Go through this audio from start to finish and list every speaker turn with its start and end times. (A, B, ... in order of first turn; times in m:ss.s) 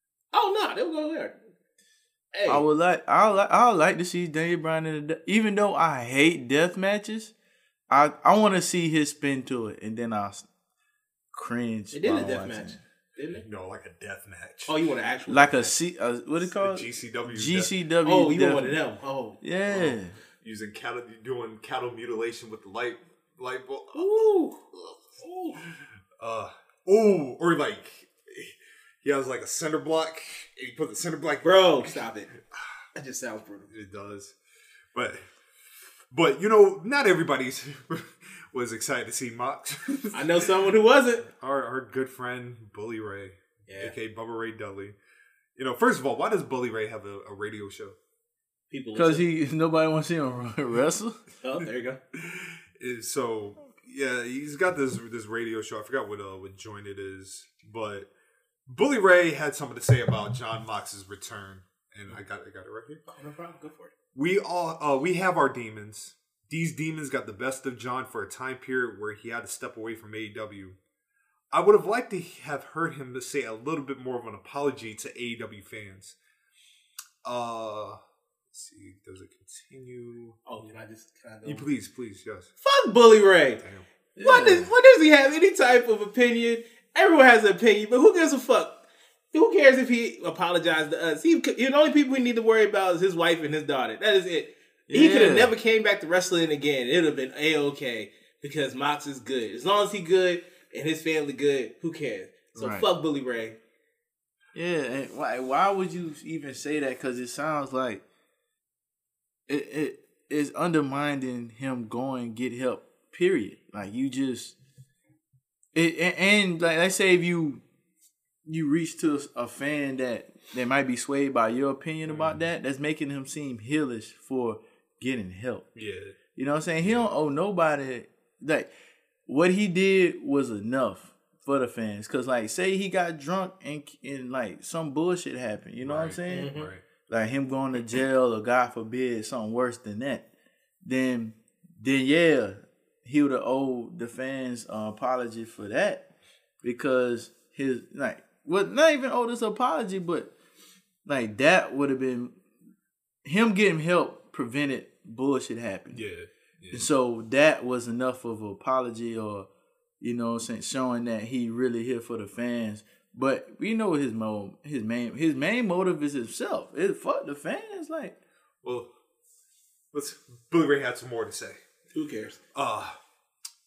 0:00.3-0:01.4 A
0:02.3-0:02.7 A
0:02.5-0:07.3 B
0:07.9-0:10.5 B
0:11.3-0:12.8 B
0:11.9-0:13.4 A
0:13.4-0:14.7 C
0:14.7-0:15.7 A
0:15.3-0:18.8 B
0:16.6-0:17.7 C
0:18.0-0:19.4 A
0:19.4-0:20.1 B
0:19.7-0:24.1 C
0:24.0-0:25.7 A
0:26.2-0:32.0 C
0:31.4-0:32.4 A
0:33.0-0:33.7 A
0:33.7-0:34.4 C
0:34.9-0:35.3 C
0:36.1-0:40.5 C
0:40.1-0:41.3 A
0:41.3-0:45.0 C
0:43.7-0:44.0 A
0:45.6-0:48.0 C
0:48.7-0:49.2 A
0:49.0-0:51.2 B
0:51.4-0:52.0 A
0:52.1-0:58.1 C
0:58.7-1:03.0 C
1:03.1-1:03.9 A
1:04.1-1:10.8 C
1:11.5-1:16.2 C
1:17.2-1:18.0 C
1:18.5-1:20.4 C
1:20.5-1:21.7 A
1:21.4-1:22.5 C
1:22.6-1:23.6 A
1:24.2-1:24.7 B
1:24.2-1:43.6 A
1:34.9-1:35.5 B
1:42.6-1:42.9 B
1:44.6-1:48.0 B
1:49.5-1:54.6 B
1:55.7-1:57.6 B
1:58.5-2:05.7 B
2:02.1-2:02.4 C
2:05.8-2:06.2 C
2:06.4-2:08.7 B
2:06.8-2:07.1 C
2:09.3-2:16.5 B
2:15.8-2:16.8 C
2:16.3-2:16.7 A
2:17.1-2:20.3 B
2:20.8-2:26.0 B
2:26.6-2:30.3 B
2:31.0-2:32.4 B
2:33.2-2:36.0 B
2:35.9-2:36.9 C
2:36.7-2:39.5 B
2:40.0-2:48.2 B
2:48.6-2:48.9 C
2:49.9-2:51.6 C
2:51.9-2:52.4 A
2:52.5-2:53.0 C